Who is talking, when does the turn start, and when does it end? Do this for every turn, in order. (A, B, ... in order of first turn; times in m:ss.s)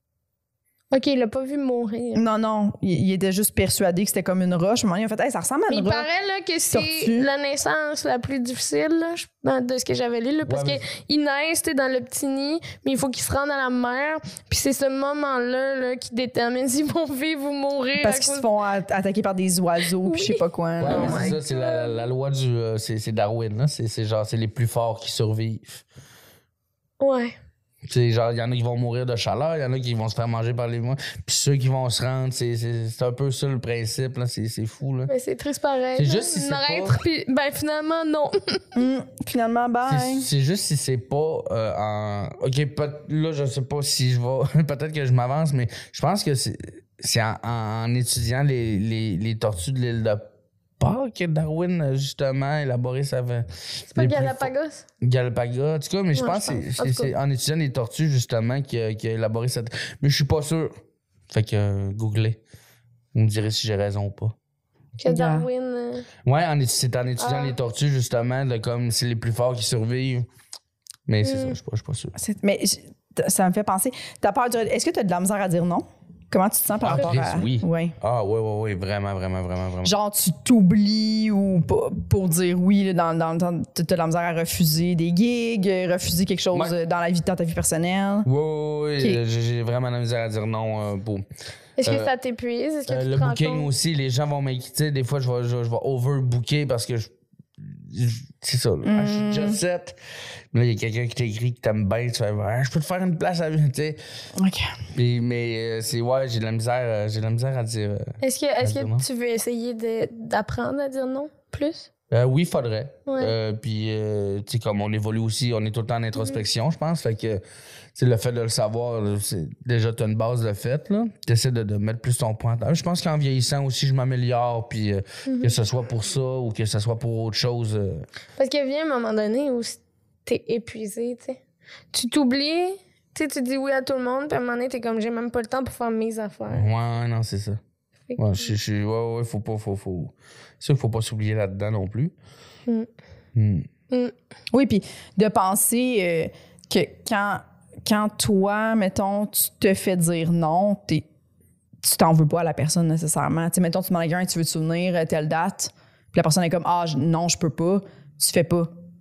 0:00.9-0:02.2 A
0:02.1-0:06.1 B
0:05.7-0:18.5 A
0:06.7-0:07.3 B
0:10.4-0:10.8 C
0:18.0-0:21.4 B
0:20.0-0:22.0 A
0:20.8-0:25.8 C
0:27.0-0:27.3 A
0:27.9-0:35.1 C
0:35.1-0:38.7 A
0:36.0-0:37.0 C
0:38.7-0:40.3 B
0:39.8-0:50.2 C
0:50.8-1:00.7 C
0:53.9-0:54.8 A
0:56.1-0:57.1 A
1:01.3-1:02.4 C
1:03.1-1:04.3 C
1:05.0-1:06.1 A
1:05.0-1:05.5 B
1:06.2-1:10.2 C
1:07.2-1:07.5 A
1:11.1-1:12.1 C
1:11.2-1:11.6 A
1:12.2-1:17.9 B
1:16.8-1:19.9 C
1:19.8-1:28.3 B
1:28.2-1:31.2 C
1:31.8-1:33.7 A
1:31.8-1:32.1 C
1:32.9-1:40.0 C
1:38.8-1:39.6 B
1:40.5-1:44.0 C
1:44.4-1:44.7 B
1:44.9-1:49.0 C
1:48.2-1:51.9 A
1:52.1-1:57.4 C
1:53.1-1:53.3 A
1:58.0-2:08.0 C
2:05.2-2:05.5 A
2:08.4-2:11.4 A
2:11.9-2:16.6 A
2:16.5-2:17.6 C
2:18.1-2:18.5 A
2:18.2-2:22.1 C
2:23.3-2:23.7 C
2:24.5-2:31.0 B
2:31.8-2:38.7 B